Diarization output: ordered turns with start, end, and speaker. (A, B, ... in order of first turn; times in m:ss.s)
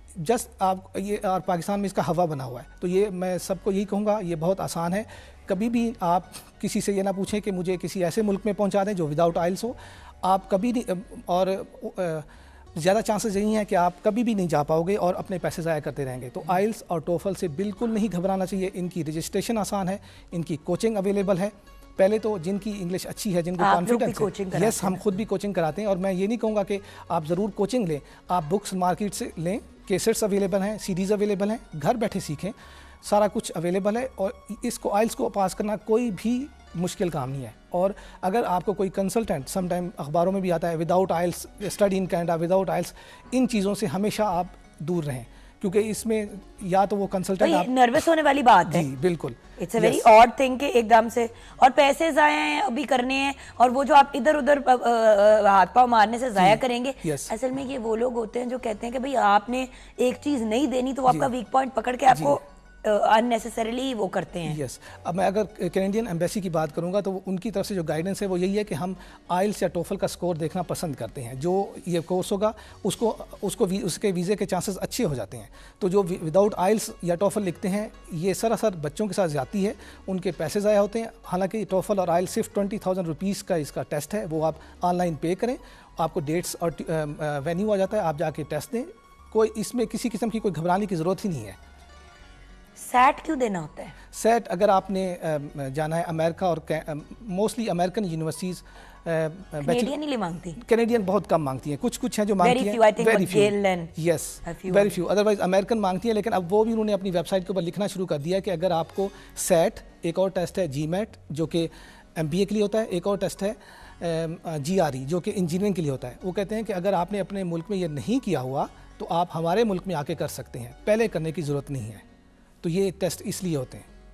0:00.1-0:47.7 A
0:23.6-0:25.0 B
0:47.4-0:48.9 B
0:48.6-0:50.0 A
0:49.6-1:04.6 B
0:56.4-0:57.3 A
1:02.1-1:02.4 A
1:04.4-1:31.6 A
1:32.8-1:33.9 B
1:34.1-1:39.9 A
1:39.6-1:40.6 B
1:40.6-2:02.0 A
1:42.4-1:43.9 B
1:44.4-1:45.0 B
2:02.6-2:03.9 A